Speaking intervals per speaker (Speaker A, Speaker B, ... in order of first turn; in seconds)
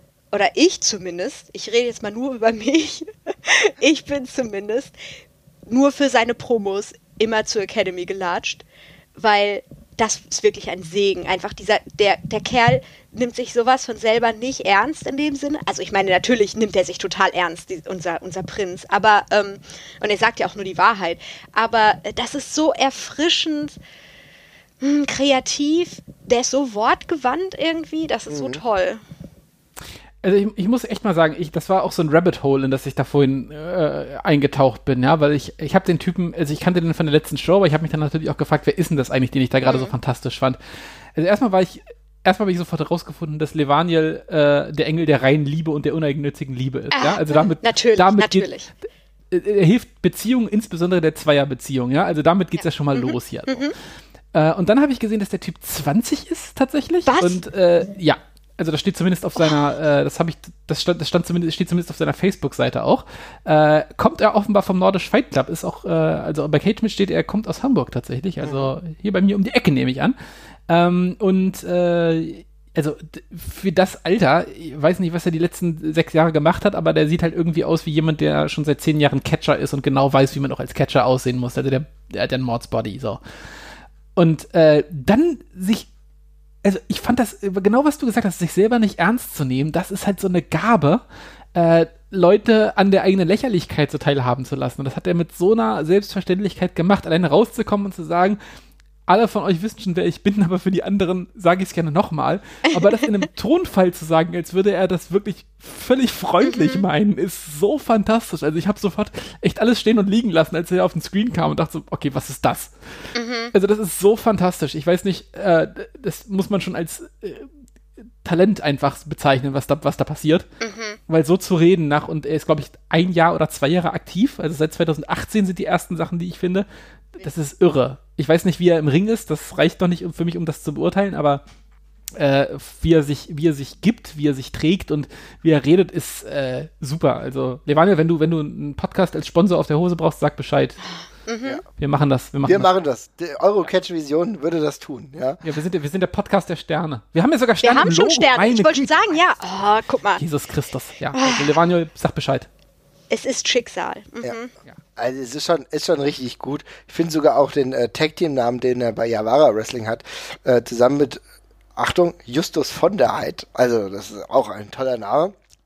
Speaker A: 0.3-4.9, 5.7-8.6, 9.2-23.8, 24.8-29.0, 39.7-39.9, 46.9-48.7, 52.6-53.7, 57.1-57.4, 102.7-103.1, 106.4-106.8, 113.1-113.5, 120.6-121.0, 141.3-141.6, 147.6-150.2, 151.1-151.5, 153.1-154.5
Speaker B: 28.3-28.6, 68.4-68.7, 142.4-145.4, 154.9-161.2, 161.8-165.4
Speaker C: 30.2-40.6, 41.1-48.5, 49.3-53.7, 54.3-70.1, 70.7-83.2, 84.2-85.9, 86.6-91.0, 91.5-98.4, 99.1-112.7, 113.5-117.5, 118.2-120.5, 121.1-131.4, 132.1-140.8, 141.8-142.7, 145.4-149.0, 150.2-152.5